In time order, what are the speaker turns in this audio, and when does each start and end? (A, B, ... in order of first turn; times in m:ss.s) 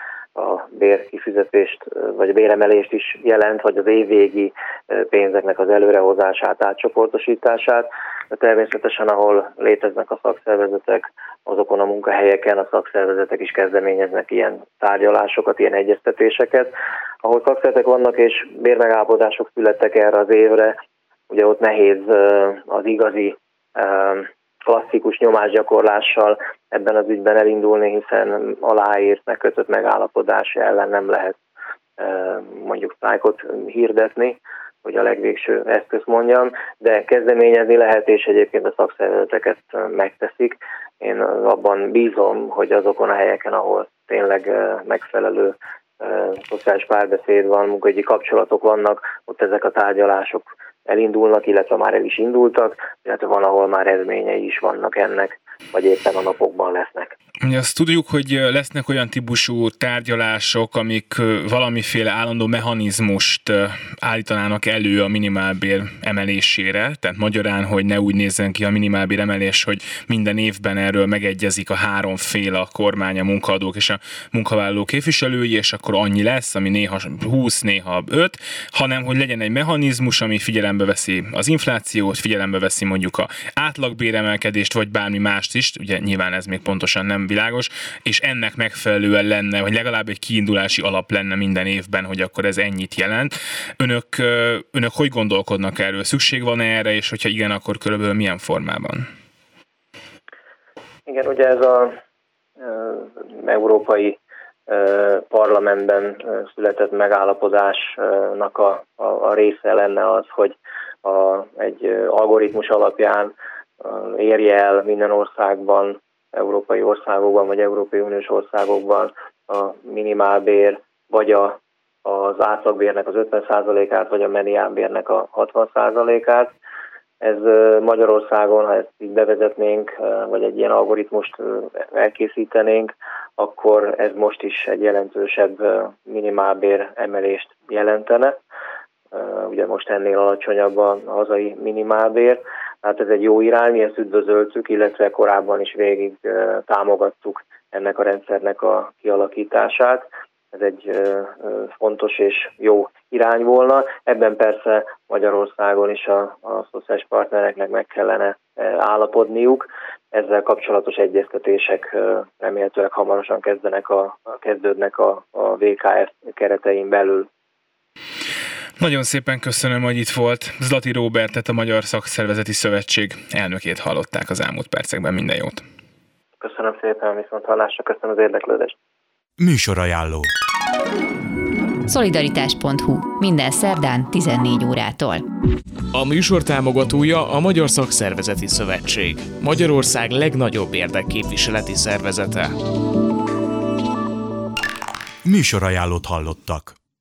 0:00.4-0:16.7 A
0:17.2-0:20.8 A
0:21.3-0:31.4 A
0:32.0-0:57.1 A
0:57.4-1:39.1 B
1:41.1-1:42.0 A
1:42.6-2:06.5 A
2:07.2-2:18.4 A
2:19.1-2:47.3 A
2:48.8-2:55.6 B
2:56.4-2:58.8 A
2:59.4-3:00.3 C
3:01.9-3:05.2 D
3:05.9-3:12.6 E
3:15.2-3:16.8 C